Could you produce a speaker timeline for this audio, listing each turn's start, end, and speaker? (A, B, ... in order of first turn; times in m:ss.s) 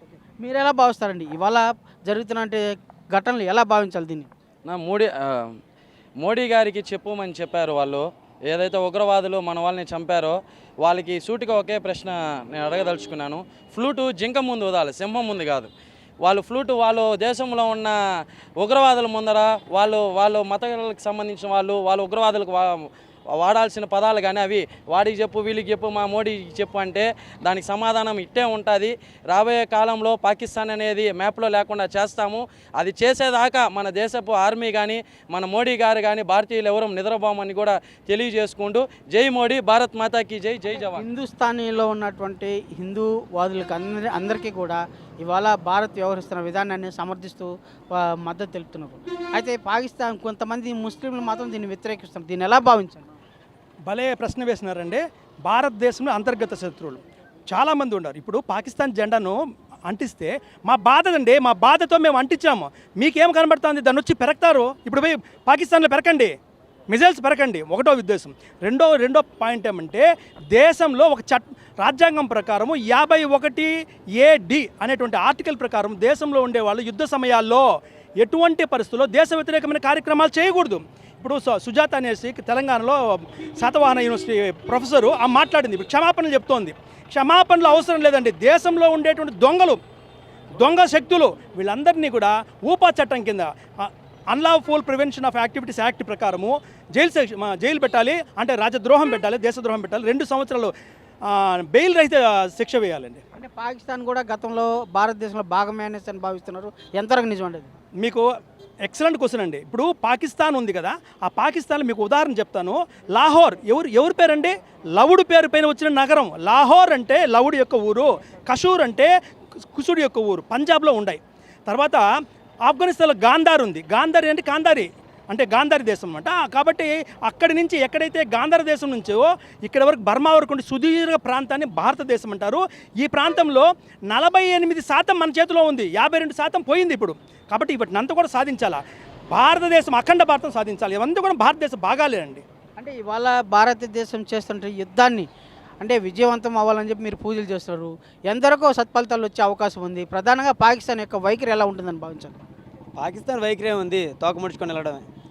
0:00.4-0:04.3 A
0:04.7-0:05.6 B
0:06.2-0:15.7 B
0:16.2-0:18.0 B
0:18.6-0:41.0 B
0:40.9-0:53.1 A
0:53.9-1:06.4 C
1:06.9-1:29.8 C
1:30.5-1:40.7 C
1:41.3-1:43.2 C
1:43.3-1:47.7 A
1:48.0-1:48.3 C
1:48.8-1:59.1 C
1:59.7-2:02.0 C
2:02.7-2:22.4 C
2:22.8-2:25.3 A
2:25.8-2:32.4 A
2:33.0-2:35.0 D